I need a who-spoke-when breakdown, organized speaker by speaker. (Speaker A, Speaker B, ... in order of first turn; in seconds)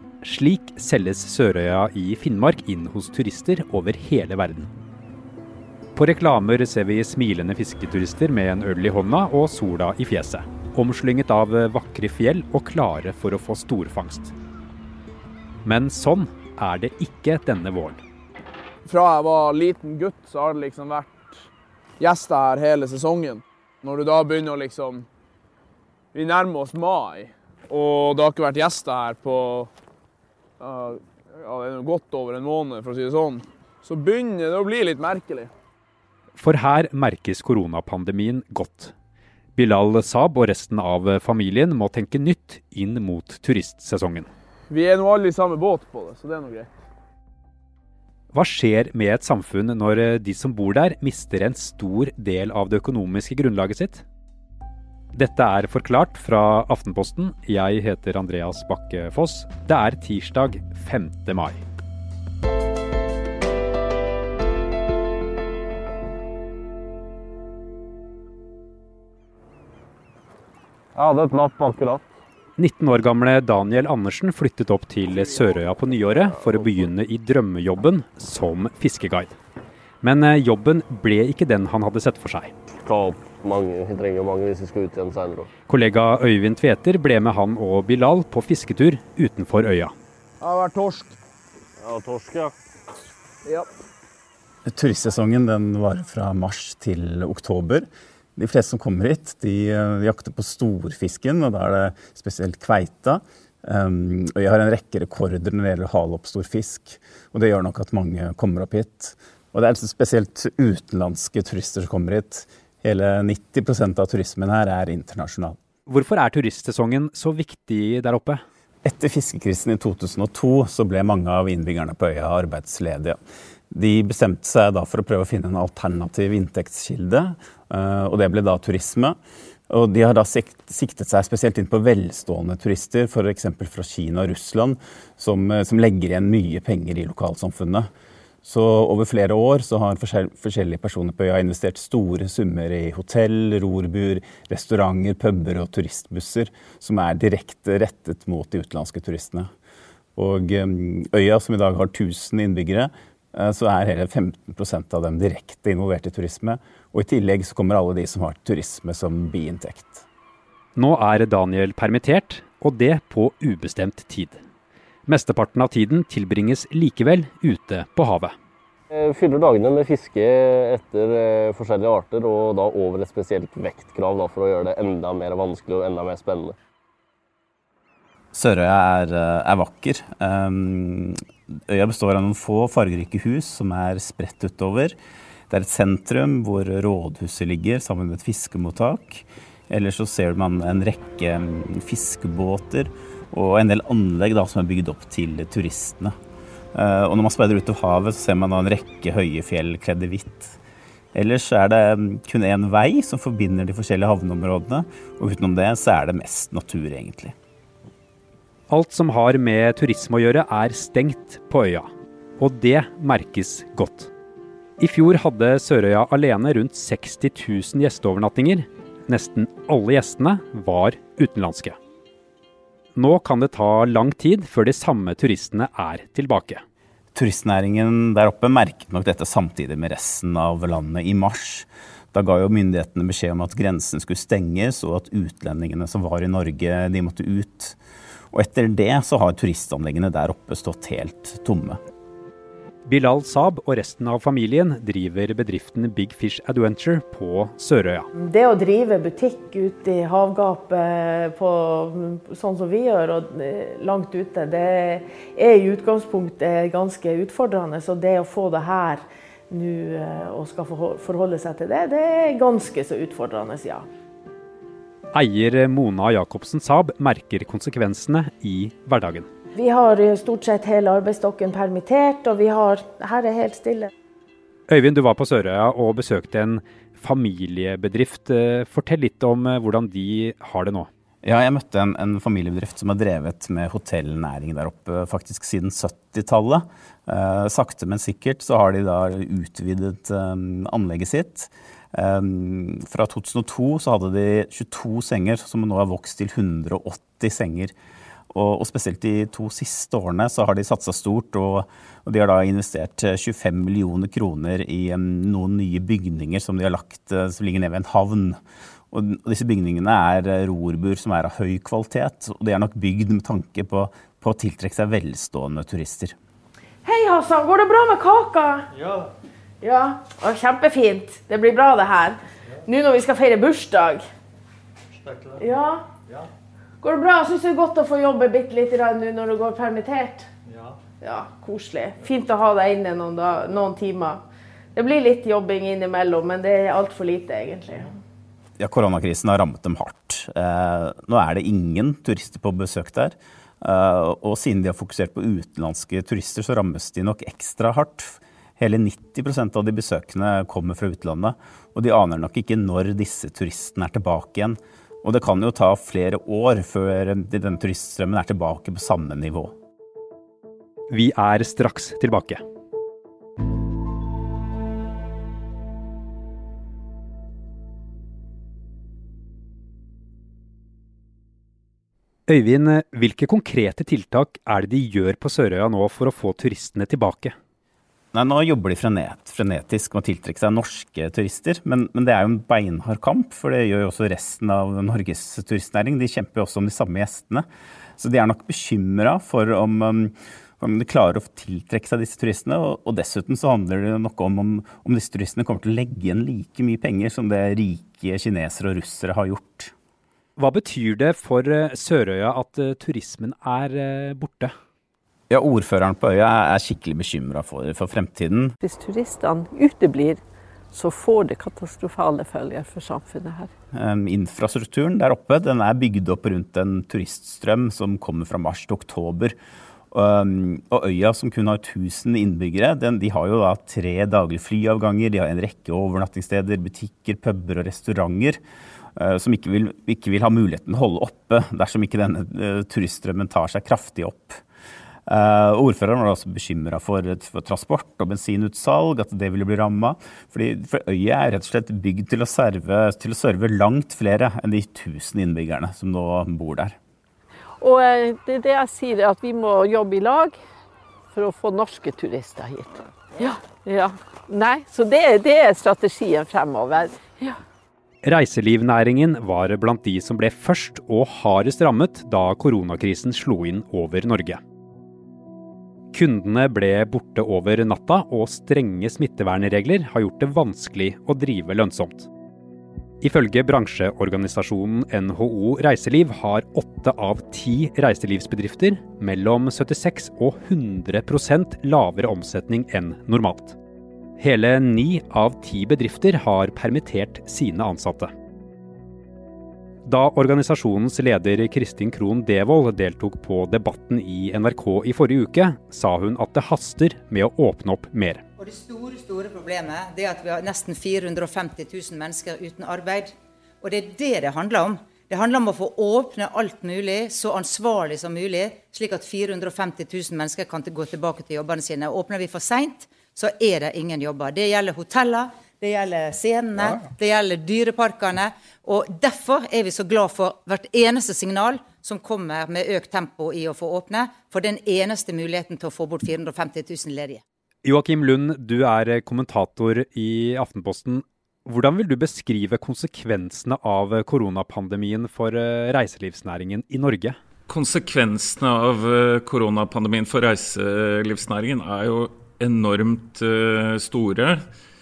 Speaker A: 0.2-4.7, 6.0-14.3, 15.6-18.0, 36.4-38.9, 39.6-44.3, 48.3-54.0, 55.1-61.6, 72.6-79.4, 80.0-82.5, 85.7-89.9, 115.9-118.4, 160.8-164.4, 165.1-168.3, 208.7-214.1, 214.8-221.8, 222.9-226.6, 242.9-248.1, 265.1-269.3, 274.7-280.9, 360.9-362.4, 372.3-377.4, 400.4-404.5, 458.0-464.4, 465.9-472.1, 473.0-483.6, 484.2-488.1, 489.9-498.2, 527.6-537.2
Speaker B: 18.9-21.2, 22.0-25.1, 26.1-29.7, 30.6-35.5, 44.7-46.7, 90.4-91.1
Speaker C: 71.0-72.1, 76.3-76.9, 82.8-85.5, 91.8-92.5, 168.9-176.6
Speaker D: 94.7-115.6, 118.8-123.2, 123.7-129.2, 129.7-137.9, 138.4-149.5, 150.2-160.1, 178.3-181.2, 181.7-185.0, 185.5-196.1, 196.7-200.6, 201.2-207.3, 227.2-237.8, 238.3-241.8, 281.2-297.7, 298.3-308.4, 308.9-316.1, 338.6-359.5, 378.1-387.5, 388.0-399.7, 405.3-408.6, 413.7-419.4, 419.9-428.4, 429.0-434.4, 435.1-446.8
Speaker E: 248.2-263.9, 269.5-273.9, 316.9-318.7, 319.6-324.0, 325.4-325.9, 326.8-330.3, 331.0-334.2, 334.8-337.9
Speaker F: 408.6-410.2, 410.7-413.5, 447.6-450.4, 451.1-457.4
Speaker G: 498.4-503.1, 503.6-527.2
Speaker H: 537.5-544.4